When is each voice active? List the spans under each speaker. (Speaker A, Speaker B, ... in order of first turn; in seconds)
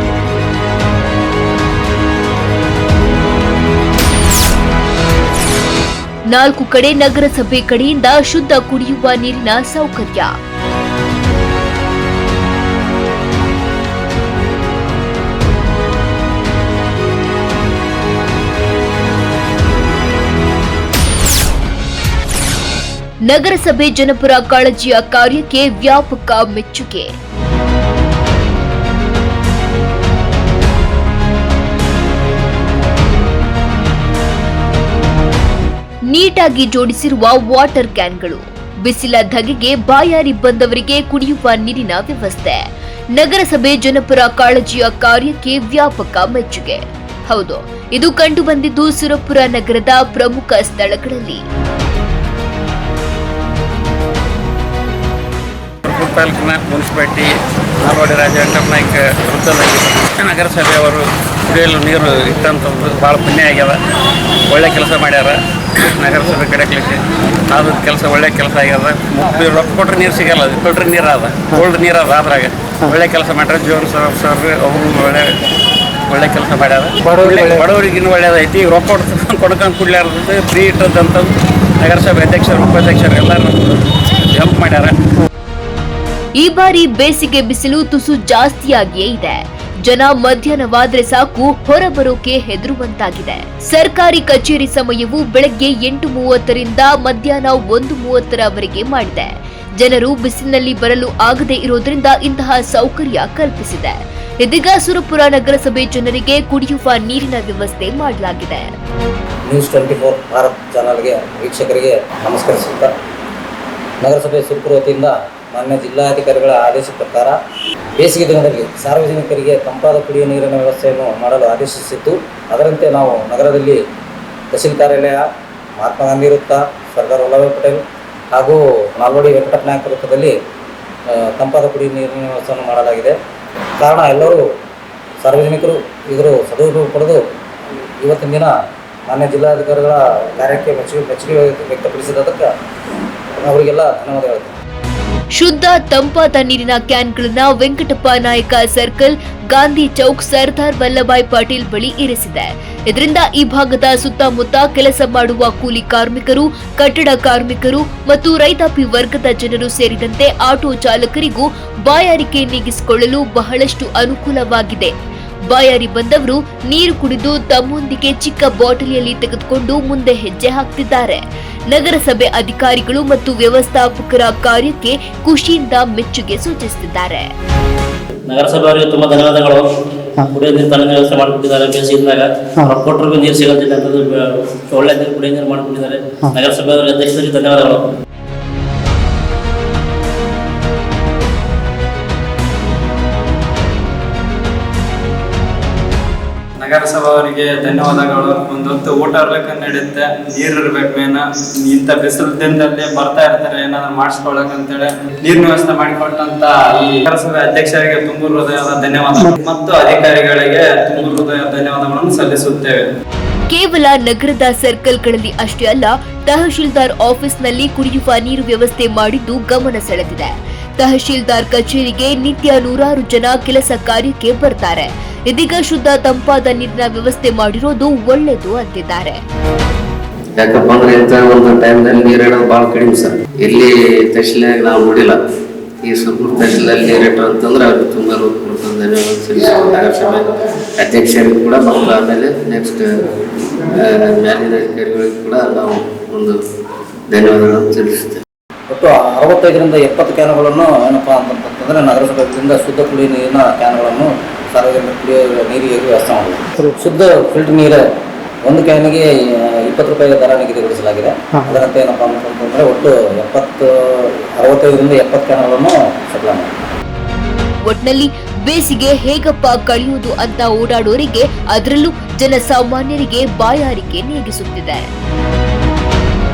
Speaker A: 6.3-10.3, 23.3-27.1, 36.1-51.4, 86.4-108.7, 145.4-164.9, 165.5-177.3, 213.5-229.2, 267.7-274.9
Speaker B: 55.8-63.8, 64.5-75.3, 76.1-81.3, 81.8-85.0
Speaker C: 109.5-112.9, 114.0-117.4, 118.0-123.8, 124.5-125.2, 125.8-127.8, 128.3-130.3, 131.1-133.2, 133.8-134.4, 135.2-137.2, 138.0-138.5, 139.1-142.5, 143.4-144.6, 248.7-257.8, 258.5-266.5
Speaker D: 178.3-179.7, 180.2-187.8
Speaker E: 196.6-212.9
Speaker F: 230.3-235.2, 235.8-242.9, 243.5-246.4, 247.1-248.2